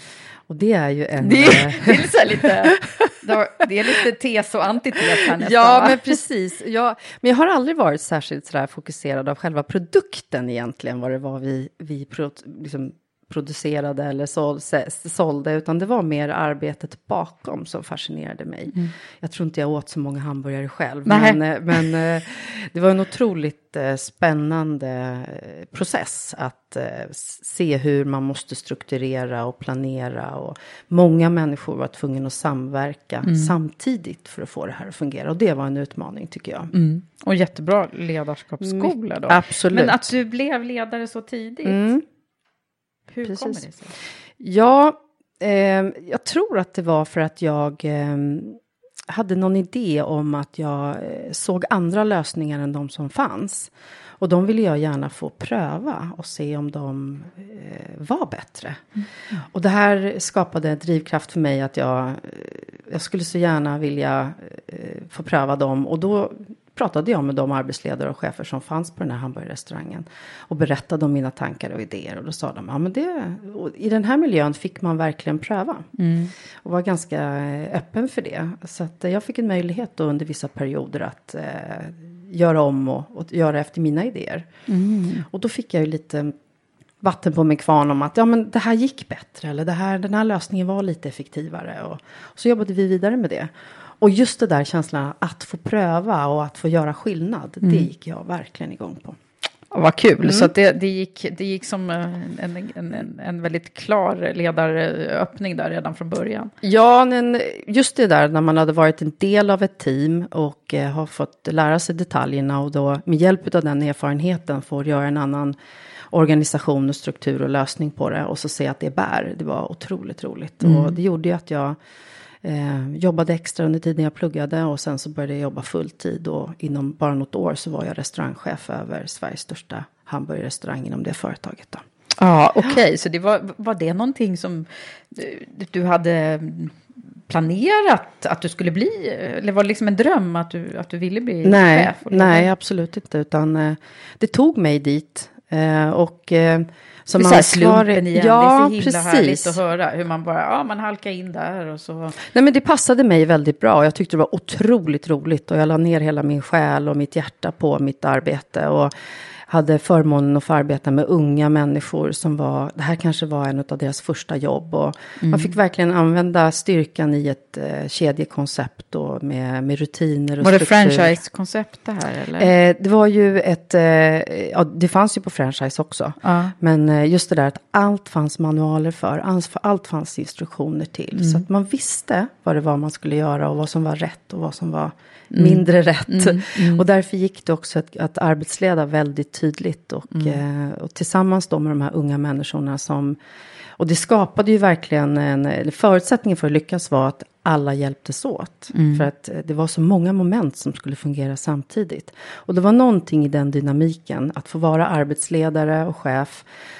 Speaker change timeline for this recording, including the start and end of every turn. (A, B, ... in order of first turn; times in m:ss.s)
0:00.5-0:03.1 A
0:01.2-0:06.1 B
0:05.2-0:36.7 A
0:21.0-0:21.8 B
0:33.2-0:33.5 B
0:36.7-0:41.9 B
0:38.6-0:40.0 A
0:41.6-0:42.0 A
0:43.1-0:43.9 B
0:43.2-0:43.6 A
0:44.4-0:58.9 A
0:59.4-1:15.9 A
1:16.0-1:16.3 B
1:16.6-1:24.5 A
1:24.7-1:25.2 B
1:25.3-1:26.3 A
1:27.0-1:39.2 A
1:37.6-1:37.9 B
1:39.7-1:46.5 B
1:40.2-1:40.5 A
1:46.6-1:55.5 A
1:56.1-2:01.8 A
2:00.6-2:01.0 B
2:02.4-2:11.8 A
2:12.2-2:16.7 B
2:17.3-2:22.5 B
2:21.4-2:29.6 A
2:27.2-2:32.2 B
2:32.2-2:38.9 A
2:39.5-2:51.2 A
2:45.2-2:45.5 B
2:50.4-2:52.5 B
2:52.4-3:13.2 A
2:56.2-2:56.5 B
3:01.1-3:01.4 B
3:05.3-3:06.8 B
3:10.1-3:10.4 B
3:13.8-3:26.4 A
3:18.7-3:19.0 B